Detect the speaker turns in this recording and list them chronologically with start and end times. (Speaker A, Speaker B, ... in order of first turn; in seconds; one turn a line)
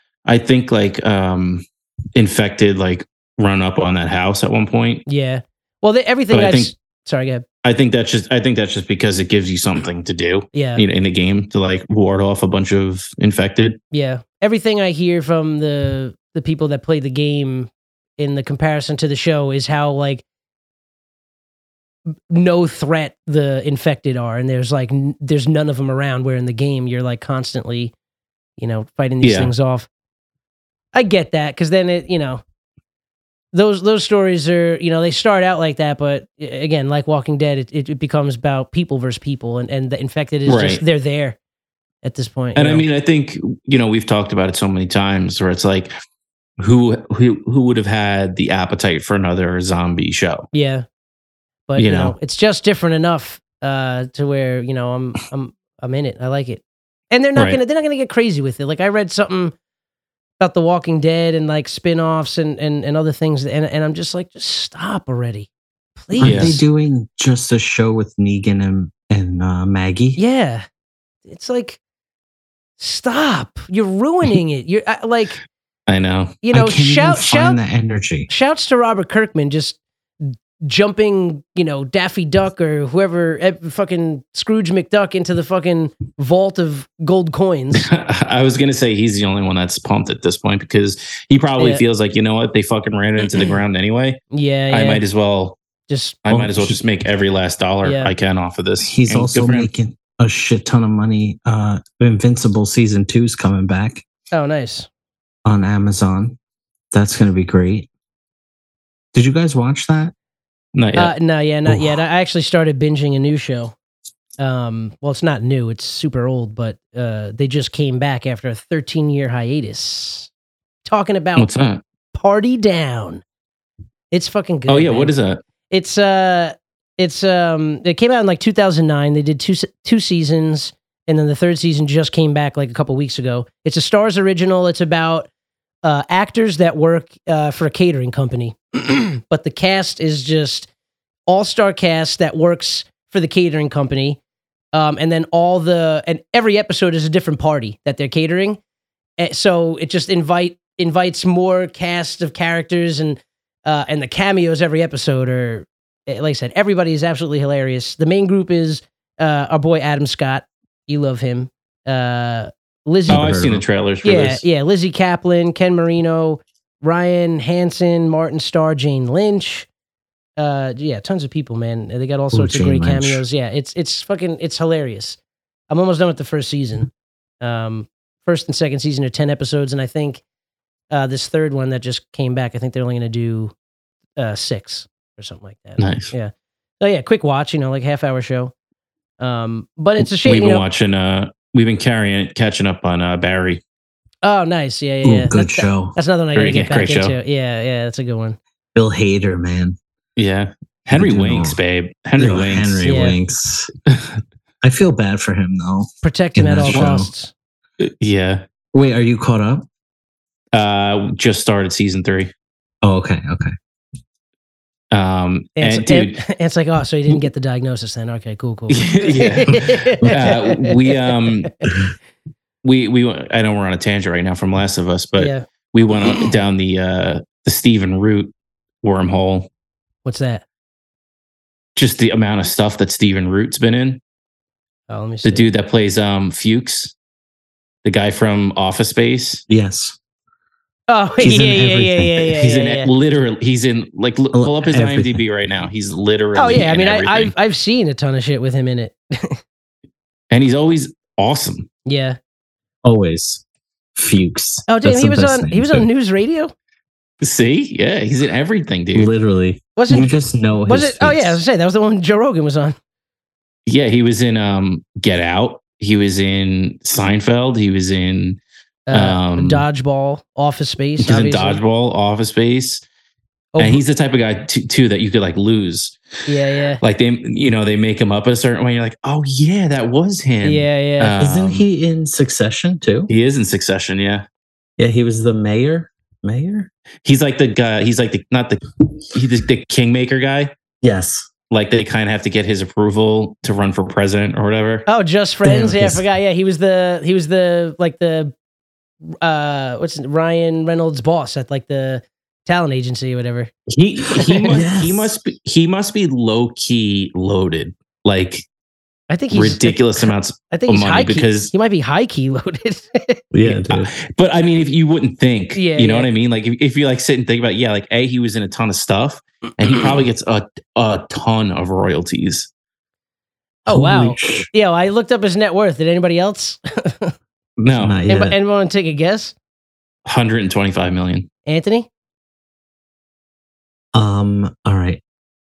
Speaker A: 0.2-5.0
Speaker B: 5.0-7.4
Speaker A: 6.3-6.7
Speaker A: 7.6-13.8
Speaker B: 10.5-10.8
Speaker B: 13.9-20.2
Speaker B: 22.3-27.9
Speaker B: 28.6-29.9
Speaker A: 29.2-29.5
Speaker B: 30.9-32.4
Speaker B: 33.5-41.4
Speaker A: 40.5-40.8
Speaker B: 42.0-42.8
Speaker A: 42.5-45.9
Speaker A: 46.6-50.5
Speaker B: 50.5-50.8
Speaker B: 51.7-59.5
Speaker A: 51.8-52.1
Speaker B: 60.4-66.6
Speaker C: 66.1-70.2
Speaker A: 66.2-66.6
Speaker B: 70.2-70.7
Speaker B: 71.2-71.8
Speaker B: 72.8-75.4
Speaker A: 75.9-76.4
Speaker B: 76.4-77.6
Speaker C: 76.5-78.3
Speaker B: 78.3-87.9
Speaker A: 87.7-95.6
Speaker B: 91.6-91.8
Speaker B: 94.3-95.0
Speaker B: 95.9-96.2
Speaker A: 96.2-99.7
Speaker C: 96.3-96.7
Speaker B: 97.8-98.1
Speaker C: 98.8-104.0
Speaker B: 104.3-104.9
Speaker C: 105.5-106.4
Speaker C: 106.9-107.9
Speaker C: 109.1-110.1
Speaker A: 110.7-111.1
Speaker B: 111.0-113.7
Speaker B: 114.4-120.3
Speaker B: 120.8-121.5
Speaker A: 121.3-121.8
Speaker B: 122.1-123.2
Speaker B: 124.1-125.1
Speaker A: 124.7-125.4
Speaker B: 125.7-135.3
Speaker B: 135.8-140.7
Speaker B: 141.3-144.2
Speaker B: 144.7-148.6
Speaker B: 149.2-163.3
Speaker C: 163.1-163.6
Speaker A: 163.1-164.4
Speaker B: 164.0-169.7
Speaker B: 170.4-180.2
Speaker C: 172.3-173.2
Speaker B: 180.9-183.5
Speaker B: 184.2-188.5
Speaker A: 185.8-186.1
Speaker B: 189.2-190.6
Speaker A: 190.2-193.6
Speaker B: 194.2-198.4
Speaker C: 195.0-195.9
Speaker A: 196.3-197.2
Speaker C: 198.7-199.8
Speaker A: 200.2-202.8
Speaker C: 200.9-201.6
Speaker C: 202.2-203.7
Speaker B: 202.8-203.2
Speaker A: 203.9-204.2
Speaker C: 204.6-207.1
Speaker B: 206.0-207.3
Speaker A: 207.8-208.4
Speaker C: 208.7-209.7
Speaker A: 210.5-212.3
Speaker C: 212.8-213.5
Speaker A: 214.9-216.2
Speaker B: 215.6-221.3
Speaker A: 218.7-221.5
Speaker A: 222.6-229.5
Speaker B: 225.2-225.4
Speaker B: 230.0-230.4
Speaker A: 231.8-234.0
Speaker B: 234.9-235.5
Speaker A: 235.2-236.9
Speaker A: 237.8-239.4
Speaker C: 239.5-240.0
Speaker B: 240.9-242.9
Speaker C: 241.2-242.3
Speaker A: 242.3-247.3
Speaker C: 244.3-245.2
Speaker B: 246.3-249.4
Speaker A: 250.3-251.7
Speaker B: 251.8-252.2
Speaker C: 252.8-253.4
Speaker C: 253.9-255.8
Speaker B: 254.7-256.5
Speaker A: 257.2-259.1
Speaker C: 258.9-261.4
Speaker B: 259.8-260.1
Speaker B: 260.6-262.8
Speaker A: 263.7-268.4
Speaker B: 268.9-271.6
Speaker A: 268.9-269.6
Speaker A: 271.0-272.8
Speaker B: 273.5-273.8
Speaker A: 273.6-276.0
Speaker B: 276.3-276.8
Speaker A: 276.8-281.6
Speaker B: 280.4-281.1
Speaker C: 281.2-283.1
Speaker A: 283.1-284.2
Speaker C: 284.8-286.7
Speaker A: 287.0-288.6
Speaker A: 289.1-290.5
Speaker C: 290.8-291.3
Speaker A: 291.5-294.9
Speaker B: 294.9-298.3
Speaker C: 295.4-296.0
Speaker B: 299.2-303.5
Speaker A: 303.7-308.4
Speaker B: 304.1-304.4
Speaker C: 304.5-305.1
Speaker B: 309.1-309.8
Speaker A: 309.3-311.5
Speaker B: 310.5-313.2
Speaker C: 313.3-313.9
Speaker A: 313.7-322.5
Speaker B: 315.5-316.1
Speaker C: 323.6-324.5
Speaker B: 323.7-327.1
Speaker A: 327.6-328.0
Speaker C: 327.8-328.4
Speaker B: 328.1-329.3
Speaker A: 330.1-331.3
Speaker B: 331.4-331.9
Speaker C: 333.9-335.0